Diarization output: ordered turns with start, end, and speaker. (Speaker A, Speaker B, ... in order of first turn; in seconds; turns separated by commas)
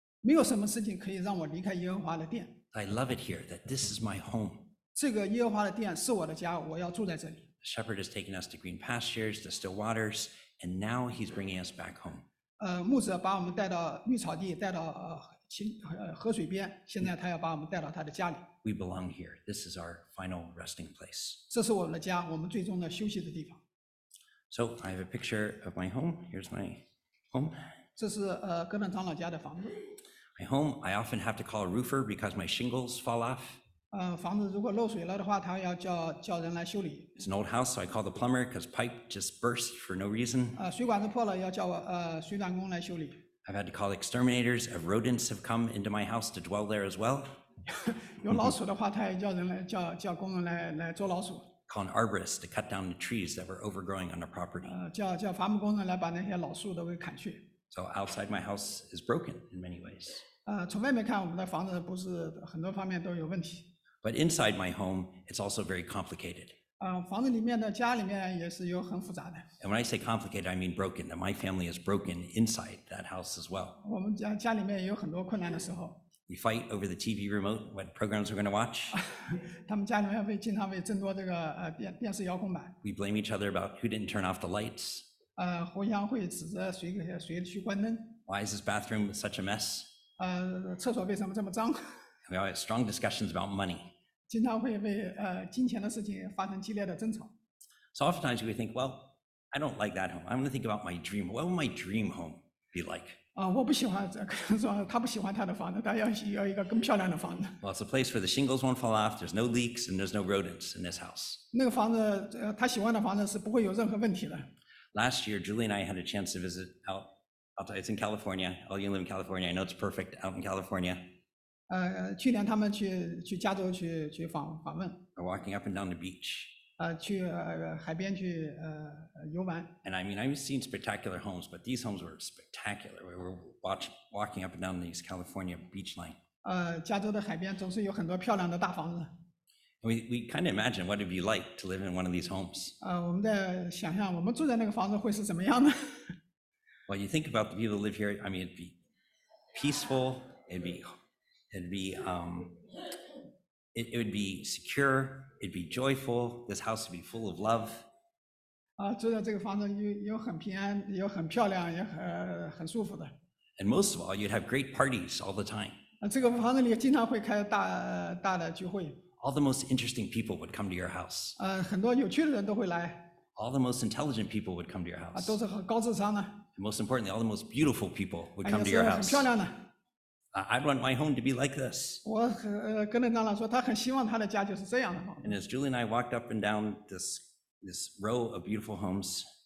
Speaker A: 0.2-2.6, Speaker B: 2.7-4.7, Speaker A: 4.9-7.5, Speaker B: 7.6-12.2, Speaker A: 12.6-18.5, Speaker B: 18.6-21.4, Speaker A: 21.5-23.6, Speaker B: 24.5-27.7, Speaker A: 28.0-29.8, Speaker B: 30.4-33.6, Speaker A: 33.9-37.2, Speaker B: 37.2-40.6, Speaker A: 40.6-43.2, Speaker B: 43.5-47.4, Speaker A: 47.7-51.5, Speaker B: 51.7-54.8, Speaker A: 54.6-57.5, Speaker B: 57.7-60.2, Speaker A: 60.5-63.7, Speaker B: 64.0-66.6, Speaker A: 66.8-69.5, Speaker B: 69.6-73.8, Speaker A: 73.8-76.0, Speaker B: 76.3-79.0, Speaker A: 78.9-82.8, Speaker B: 82.8-85.1, Speaker A: 85.4-88.2, Speaker B: 88.3-89.9, Speaker A: 90.2-92.0, Speaker B: 92.3-93.9, Speaker A: 94.3-97.3, Speaker B: 97.9-103.2, Speaker A: 103.3-107.6, Speaker B: 107.6-111.4, Speaker A: 111.5-114.5, Speaker B: 114.9-121.0, Speaker A: 121.7-125.0, Speaker B: 125.2-126.6, Speaker A: 126.8-129.7, Speaker B: 129.8-136.2, Speaker A: 136.4-139.1, Speaker B: 139.8-142.8, Speaker A: 142.8-146.1, Speaker B: 146.9-148.8, Speaker B: 149.5-150.9, Speaker B: 151.5-152.6, Speaker B: 153.7-157.9, Speaker A: 158.8-163.1, Speaker B: 163.6-165.8, Speaker A: 166.0-169.0, Speaker B: 169.2-171.4, Speaker A: 171.4-173.1, Speaker B: 173.3-175.4, Speaker A: 175.1-176.4, Speaker B: 176.6-179.3, Speaker A: 178.4-179.7, Speaker B: 180.3-182.0, Speaker A: 182.0-185.3, Speaker B: 185.2-189.2